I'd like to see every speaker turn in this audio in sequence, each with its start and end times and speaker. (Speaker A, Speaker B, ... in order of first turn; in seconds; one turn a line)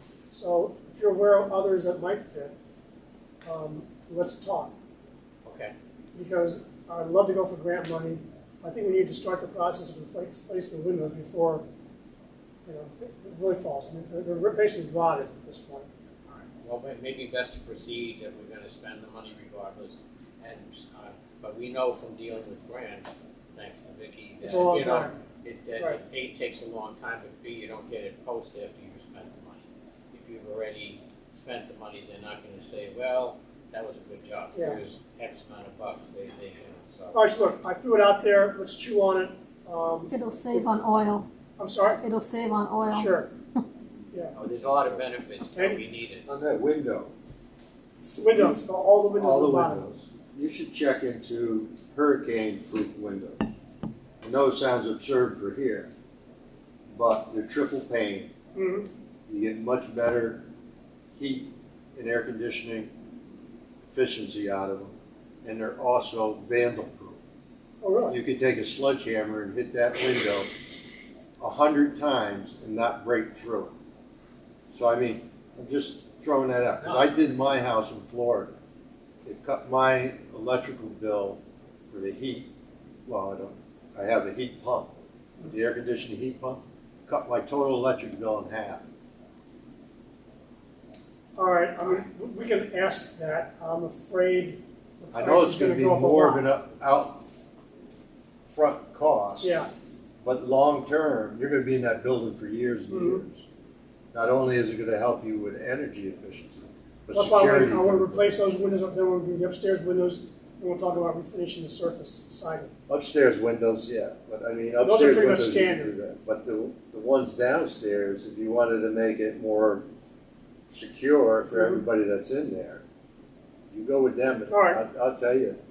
Speaker A: 0.3-2.5
Speaker A: 3.5-4.7
Speaker B: 5.4-5.7
Speaker A: 6.2-11.6
Speaker A: 12.7-15.9
Speaker B: 16.3-37.2
Speaker A: 24.4-25.1
Speaker A: 34.5-34.8
Speaker A: 37.1-40.7
Speaker C: 40.1-41.3
Speaker A: 41.6-42.0
Speaker C: 42.0-43.1
Speaker A: 42.9-43.3
Speaker B: 44.4-46.2
Speaker A: 45.6-45.8
Speaker D: 46.3-47.1
Speaker A: 48.2-49.8
Speaker D: 48.3-48.6
Speaker D: 49.1-53.4
Speaker D: 54.2-55.9
Speaker D: 56.9-58.3
Speaker A: 58.5-58.9
Speaker D: 59.3-60.4
Speaker D: 61.2-62.9
Speaker D: 63.9-64.9
Speaker D: 65.4-67.2
Speaker A: 67.8-68.2
Speaker D: 68.1-70.5
Speaker D: 71.4-73.7
Speaker D: 74.7-78.5
Speaker D: 79.2-81.4
Speaker D: 81.9-82.5
Speaker D: 83.1-88.8
Speaker A: 91.4-96.5
Speaker D: 95.1-97.2
Speaker D: 98.5-99.5
Speaker A: 99.4-99.7
Speaker D: 100.2-103.5
Speaker A: 102.9-103.2
Speaker D: 104.1-108.2
Speaker A: 107.1-112.7
Speaker D: 112.9-119.8
Speaker A: 114.8-115.9
Speaker D: 120.7-122.8
Speaker A: 121.5-121.8
Speaker D: 123.7-125.6
Speaker A: 124.5-124.8